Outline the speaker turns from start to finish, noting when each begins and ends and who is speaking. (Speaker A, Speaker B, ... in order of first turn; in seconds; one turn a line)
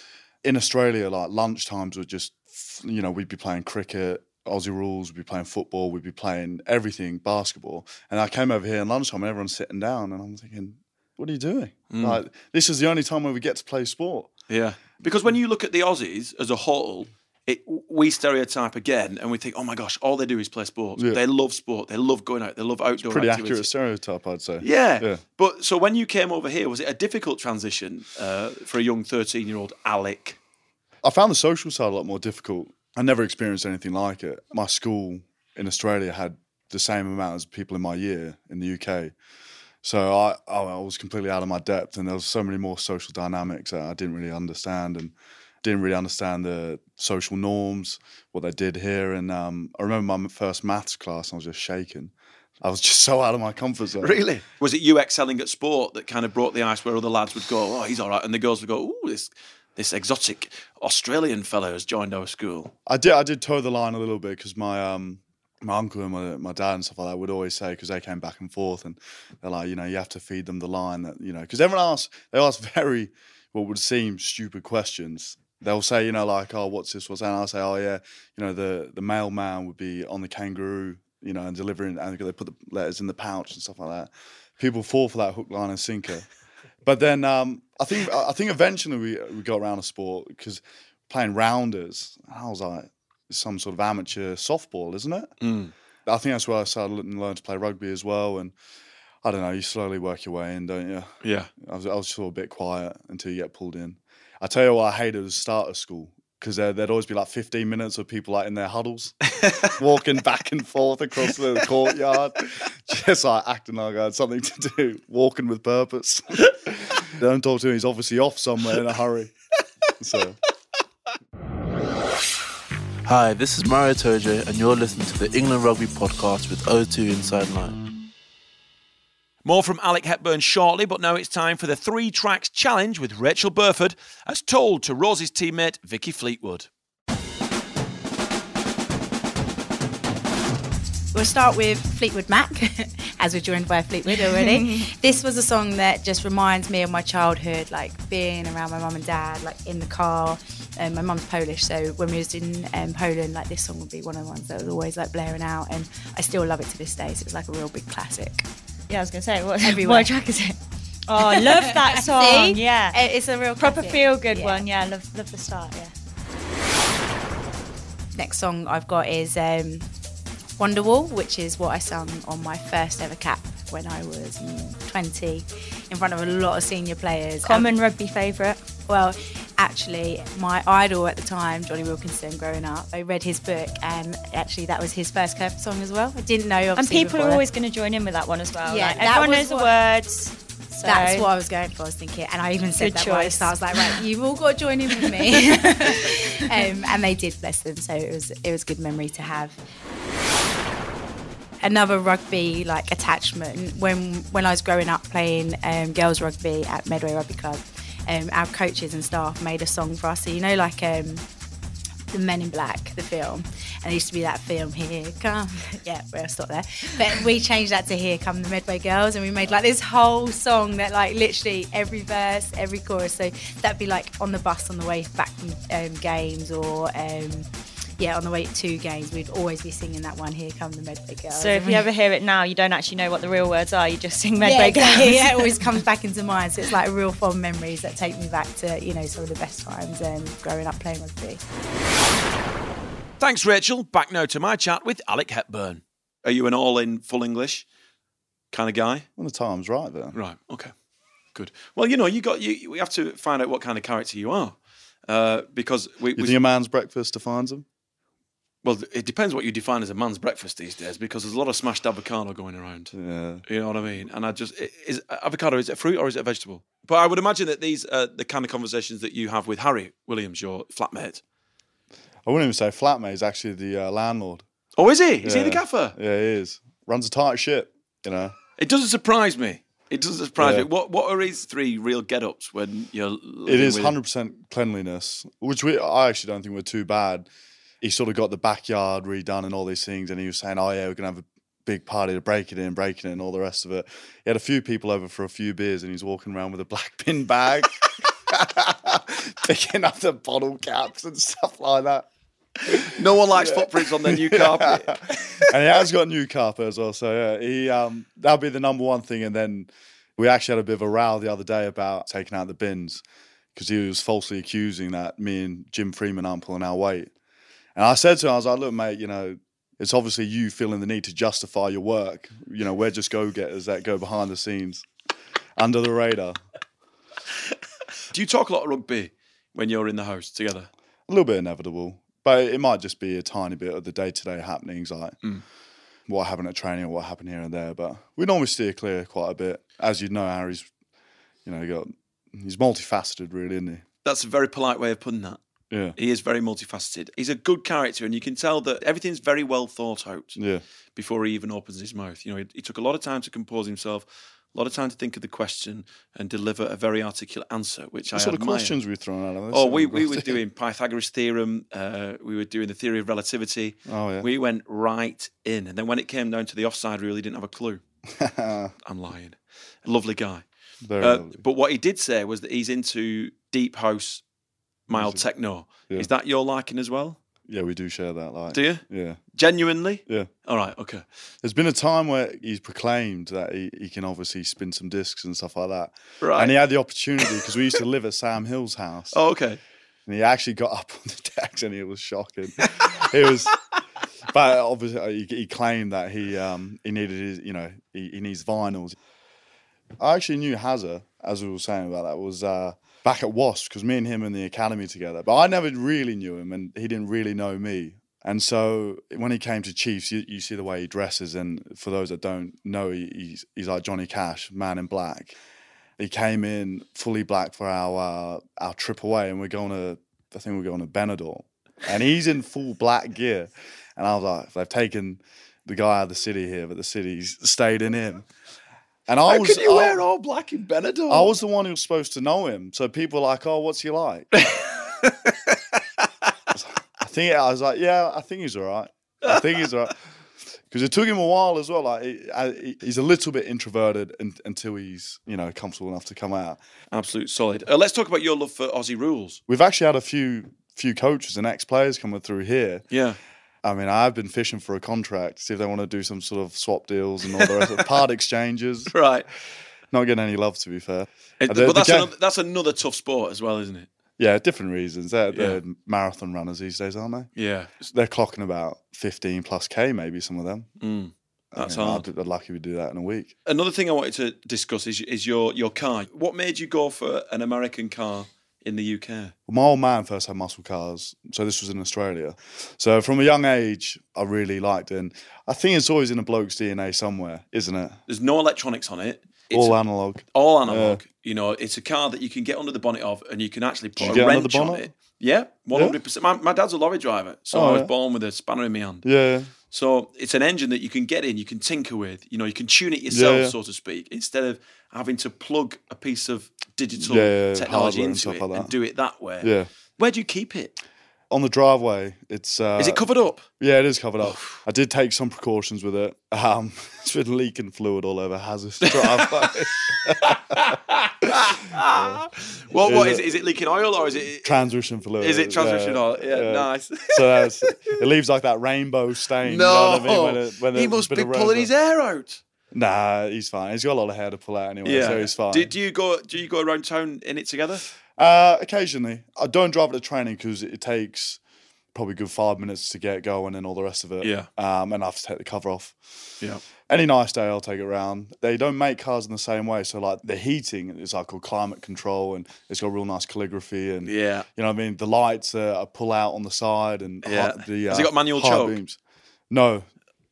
Speaker A: 0.4-14.3
Speaker B: 11.9-12.2
Speaker B: 14.5-23.7
Speaker A: 23.0-25.2
Speaker B: 24.6-30.4
Speaker A: 31.0-39.1
Speaker A: 39.8-54.2
Speaker B: 54.0-62.7
Speaker A: 62.9-86.3
Speaker A: 86.8-95.3
Speaker B: 95.4-95.7
Speaker A: 96.0-98.5
Speaker A: 99.2-119.3
Speaker B: 101.2-101.5
Speaker B: 109.4-109.7
Speaker A: 120.0-120.4
Speaker C: 123.0-127.8
Speaker B: 129.4-136.7
Speaker D: 141.1-158.4
Speaker E: 144.1-144.9
Speaker E: 158.9-160.6
Speaker D: 159.6-160.1
Speaker E: 161.1-163.0
Speaker D: 161.2-164.6
Speaker E: 163.6-165.9
Speaker D: 168.1-169.8
Speaker D: 170.6-177.7
Speaker E: 177.4-178.6
Speaker D: 178.9-187.4
Speaker E: 186.8-191.3
Speaker D: 188.7-189.7
Speaker D: 190.8-199.6
Speaker E: 192.8-194.0
Speaker E: 195.0-196.7
Speaker D: 201.6-211.2
Speaker D: 212.1-227.5
Speaker D: 228.0-231.9
Speaker E: 231.3-235.8
Speaker D: 234.4-241.4
Speaker B: 243.2-247.6
Speaker B: 248.5-249.1
Speaker A: 249.2-250.2
Speaker B: 250.1-250.7
Speaker B: 251.3-254.6
Speaker B: 255.1-256.4
Speaker A: 256.1-257.6
Speaker B: 258.6-262.9
Speaker A: 262.9-263.4
Speaker B: 263.5-271.2
Speaker A: 272.2-274.4
Speaker B: 274.8-275.9
Speaker A: 275.2-278.4
Speaker B: 278.6-283.9
Speaker A: 280.4-280.7
Speaker A: 283.5-287.3
Speaker A: 287.8-302.1
Speaker A: 302.7-313.0
Speaker B: 302.7-305.5
Speaker A: 313.5-317.1
Speaker A: 317.7-324.8
Speaker A: 325.6-326.4
Speaker B: 328.1-330.7
Speaker A: 331.1-335.1
Speaker A: 336.1-340.7
Speaker A: 341.4-343.8
Speaker B: 344.0-345.4
Speaker A: 345.7-345.9
Speaker B: 345.9-350.4
Speaker A: 350.4-350.6
Speaker B: 350.9-358.8
Speaker A: 358.1-360.4
Speaker B: 359.5-367.8
Speaker A: 363.9-364.3
Speaker A: 368.1-368.7
Speaker B: 368.8-370.4
Speaker A: 370.8-371.4
Speaker B: 371.0-374.2
Speaker B: 374.9-377.2
Speaker A: 374.9-375.2
Speaker A: 377.5-379.2
Speaker B: 378.5-378.8
Speaker B: 379.3-381.0
Speaker A: 381.4-389.2
Speaker B: 386.2-386.6
Speaker B: 389.1-389.6
Speaker A: 390.1-393.6
Speaker A: 394.3-399.0
Speaker A: 400.0-415.4
Speaker A: 416.0-428.2
Speaker A: 429.1-430.0
Speaker B: 429.3-431.3
Speaker A: 431.1-434.3
Speaker B: 434.4-435.8
Speaker A: 436.5-439.9
Speaker B: 439.2-439.6
Speaker A: 440.7-446.6
Speaker B: 446.9-449.4
Speaker A: 449.5-452.8
Speaker B: 452.9-453.2
Speaker A: 453.6-458.9
Speaker B: 457.4-457.8
Speaker B: 458.9-459.2
Speaker A: 459.9-462.1
Speaker B: 461.4-463.9
Speaker A: 464.2-467.3
Speaker B: 465.3-465.6
Speaker B: 467.4-467.8
Speaker A: 467.9-470.7
Speaker B: 470.8-472.1
Speaker A: 471.5-473.3
Speaker B: 473.4-479.3
Speaker A: 479.5-488.0
Speaker B: 488.1-489.8
Speaker A: 489.5-491.0
Speaker B: 490.3-499.0
Speaker A: 494.0-494.9
Speaker A: 497.5-497.9
Speaker A: 499.0-499.5
Speaker B: 499.7-510.8
Speaker A: 503.1-503.6
Speaker A: 507.0-508.7
Speaker A: 509.4-509.7
Speaker A: 511.3-513.0
Speaker B: 512.8-513.4
Speaker A: 513.6-520.7
Speaker B: 514.3-514.6
Speaker B: 518.8-519.6
Speaker B: 520.2-524.6
Speaker A: 521.3-522.2
Speaker A: 522.8-523.3
Speaker A: 524.4-531.7
Speaker B: 525.2-527.8
Speaker B: 529.4-532.4
Speaker A: 532.7-535.7
Speaker B: 534.8-537.8
Speaker A: 538.2-541.4
Speaker A: 541.9-546.0
Speaker B: 544.2-544.5
Speaker A: 546.9-559.0
Speaker B: 554.0-554.5
Speaker B: 557.2-558.8
Speaker A: 559.5-559.9